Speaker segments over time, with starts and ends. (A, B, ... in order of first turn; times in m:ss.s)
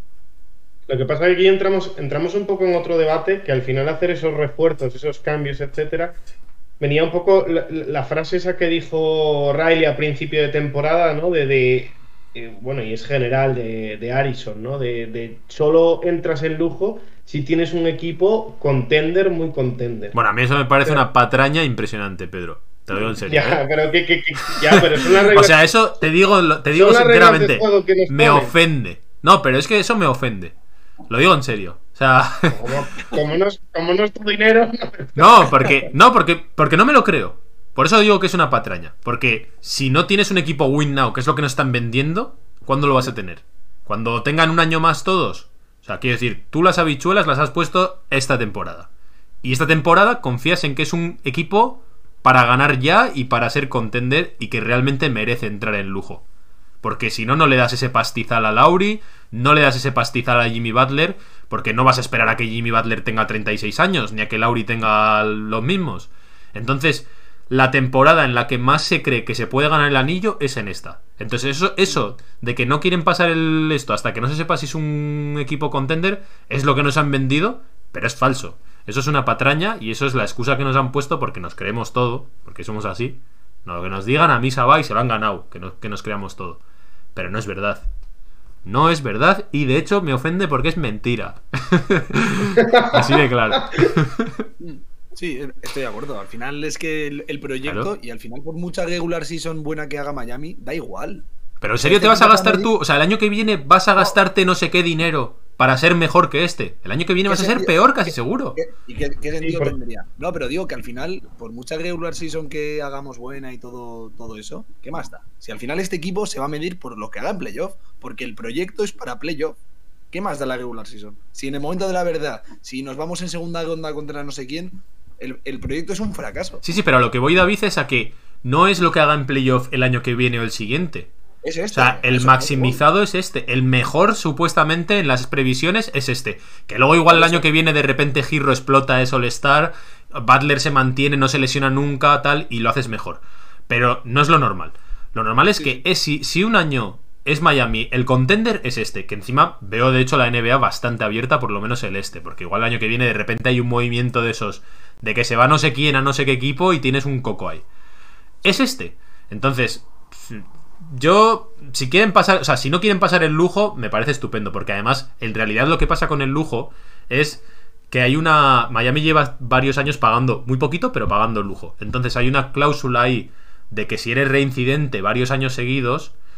0:00.9-0:06.2 A
0:06.8-0:20.2 A
0:20.1-0:23.6 B
0:23.1-0:25.6 A
0:24.5-0:30.6 B
0:26.7-0:28.5 A
0:31.1-0:32.6 B
0:32.5-0:35.4 A
0:35.2-0:48.9 B
0:49.4-0:56.2 B
0:56.8-1:26.6 B
1:27.2-1:27.9 B
1:28.6-1:34.4 B
1:32.6-1:33.0 A
1:34.6-1:41.3 C
1:37.6-1:37.9 B
1:41.6-1:48.6 B
1:41.8-1:42.7 C
1:47.3-1:59.6 C
1:49.4-1:49.8 A
2:00.1-2:06.6 C
2:06.6-2:11.1 B
2:11.4-2:12.8 C
2:11.7-2:37.6 B
2:17.1-2:17.5 C
2:38.4-2:56.2 B